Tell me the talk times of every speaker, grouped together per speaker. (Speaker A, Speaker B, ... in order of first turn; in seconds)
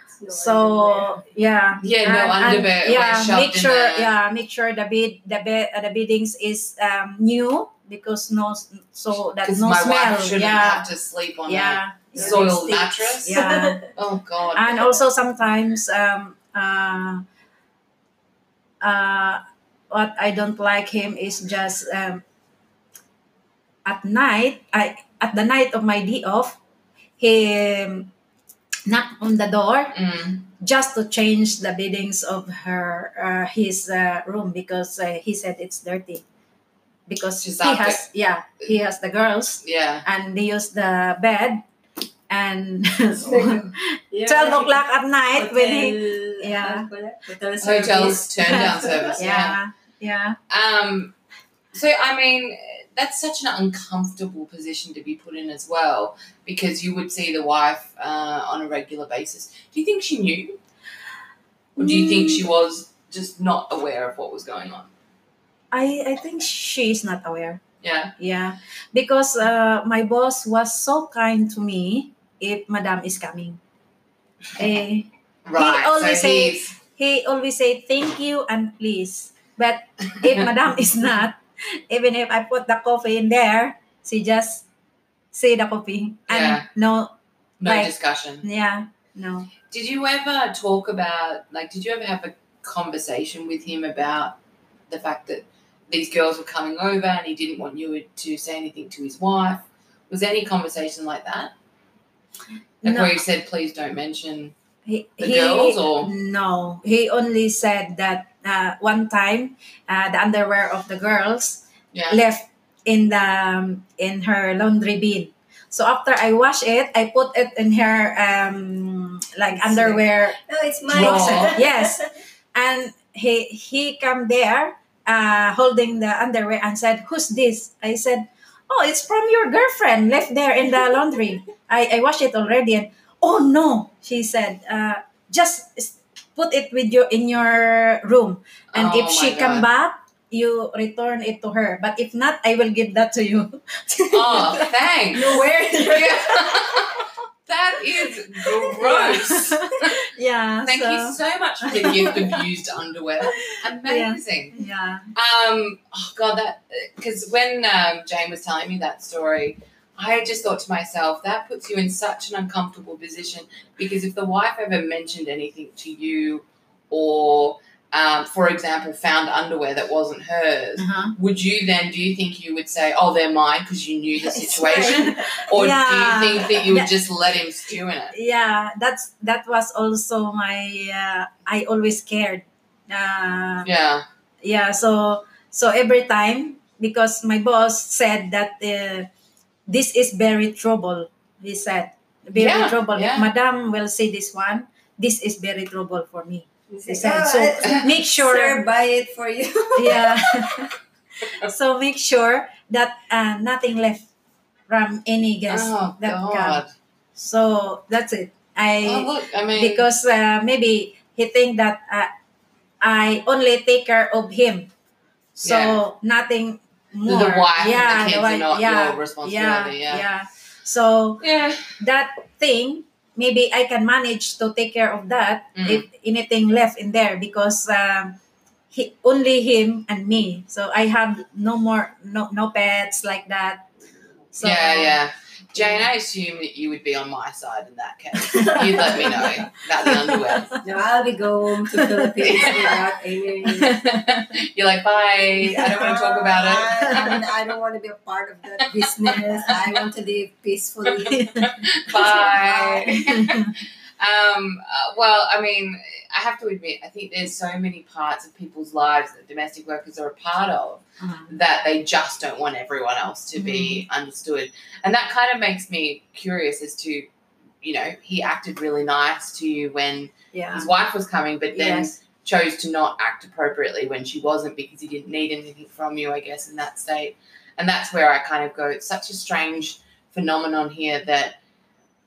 Speaker A: 0.2-1.2, 12.2-12.8, 13.3-13.8, 43.2-44.8, 45.3-49.2, 119.5-121.9, 145.1-146.8, 174.2-175.4, 196.7-200.3, 240.6-243.8, 245.7-252.9
Speaker B: 0.3-10.9, 11.5-13.9, 14.6-17.2, 18.8-22.2, 23.9-26.6, 27.2-28.1, 28.9-30.0, 30.5-36.2, 37.1-41.6, 42.3-46.9, 48.5-50.4, 61.8-62.4, 65.7-67.6, 68.2-73.6, 74.6-84.7, 85.3-89.5, 102.8-103.2, 104.9-145.6, 148.6-152.4, 153.3-155.1, 170.8-171.2, 175.5-176.9, 178.1-183.7, 184.4-189.1, 189.7-198.6, 199.8-204.1, 204.7-206.6, 207.2-212.1, 212.8-214.7, 215.4-221.2, 221.8-228.2, 228.7-233.7, 234.3-235.0, 235.6-235.8, 238.2-240.6, 241.7-242.5, 243.5-244.3, 251.1-251.5, 252.9-253.5, 261.0-261.3, 263.4-263.9, 270.3-270.7, 271.5-272.0
Speaker C: 1.8-4.1, 9.4-15.0, 29.9-30.4, 37.4-38.0, 39.6-40.0, 47.6-49.6, 50.5-51.1, 51.7-60.6, 61.8-64.9, 67.8-68.2, 75.5-76.7, 86.3-86.7, 87.6-88.5, 89.7-94.4, 94.9-101.5, 102.8-104.5, 105.2-106.1, 111.9-112.2, 120.9-121.6, 138.7-139.7, 144.1-150.0, 150.7-154.6, 155.1-178.2, 183.7-184.1, 192.3-193.3, 205.5-206.7, 208.8-209.9, 215.4-215.8, 217.1-220.1, 221.2-221.8, 225.6-225.8, 234.4-240.6, 242.2-242.7, 243.8-247.3, 248.6-249.6, 251.4-267.1, 267.6-281.4